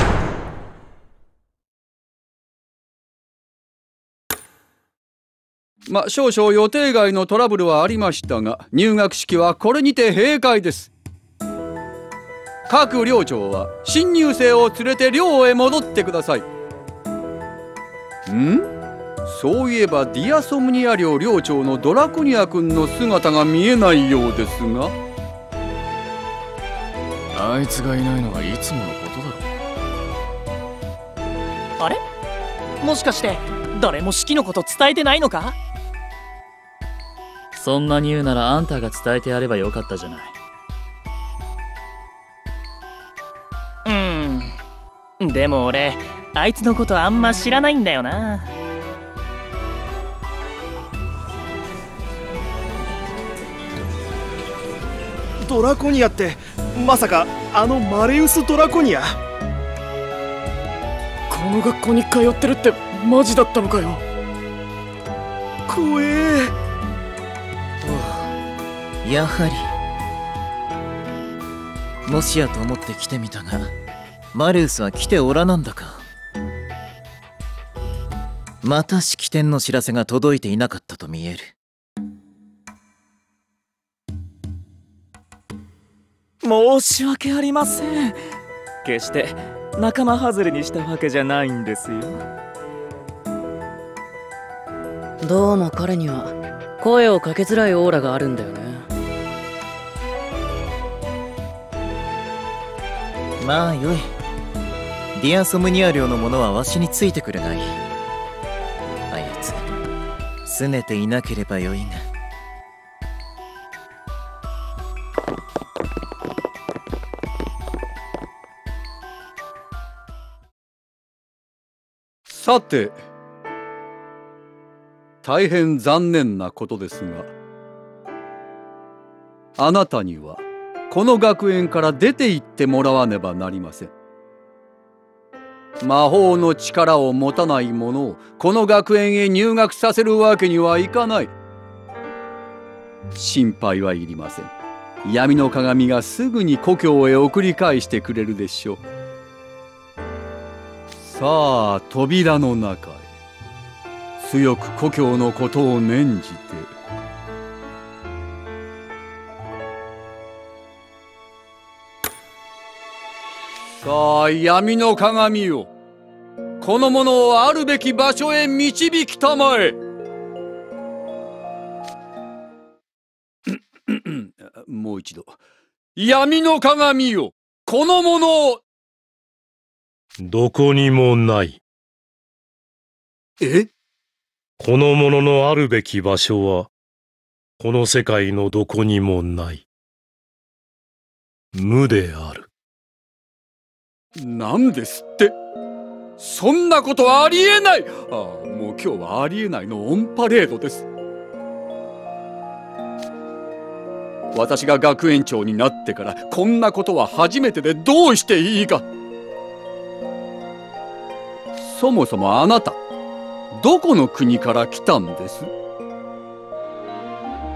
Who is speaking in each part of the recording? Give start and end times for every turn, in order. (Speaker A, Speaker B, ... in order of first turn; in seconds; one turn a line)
Speaker A: 5.9-10.9
Speaker A: 12.7-16.5
Speaker A: 18.3-18.7
Speaker A: 19.2-25.0
Speaker B: 27.3-29.5
Speaker C: 32.8-35.6
Speaker D: 37.6-40.4
Speaker C: 43.9-44.5
Speaker C: 45.2-48.5
Speaker E: 55.4-59.2
Speaker E: 61.3-64.0
Speaker E: 65.7-66.5
Speaker F: 67.8-68.3
Speaker F: 69.0-69.7
Speaker F: 72.0-73.7
Speaker F: 74.3-76.1
Speaker F: 78.6-81.5
Speaker G: 86.4-88.2
Speaker G: 88.8-92.2
Speaker H: 95.2-98.9
Speaker F: 103.4-104.1
Speaker F: 105.2-107.8
Speaker F: 109.1-109.7
Speaker F: 110.5-112.0
Speaker A: 122.3-123.0
Speaker A: 125.2-127.3
Speaker A: 129.6-133.9
Speaker A: 135.8-141.3
Speaker A: 143.1-144.5
Speaker A: 145.0-148.8
Speaker A: 150.9-153.1
Speaker A: 154.2-156.7
Speaker A: 163.7-165.7
Speaker A: 166.6-169.8
Speaker A: 173.5-175.4
Speaker A: 176.0-178.6
Speaker I: 180.2-181.6
Speaker A: 183.4-183.7
Speaker I: 184.6-186.7
Speaker I: 187.6-189.7
Speaker I: 191.5-192.5
Speaker A: 194.2-195.3
Speaker A: 196.2-200.9
Speaker A: 204.3-208.9
Speaker A: 211.6-212.8
Speaker A: 213.5-215.5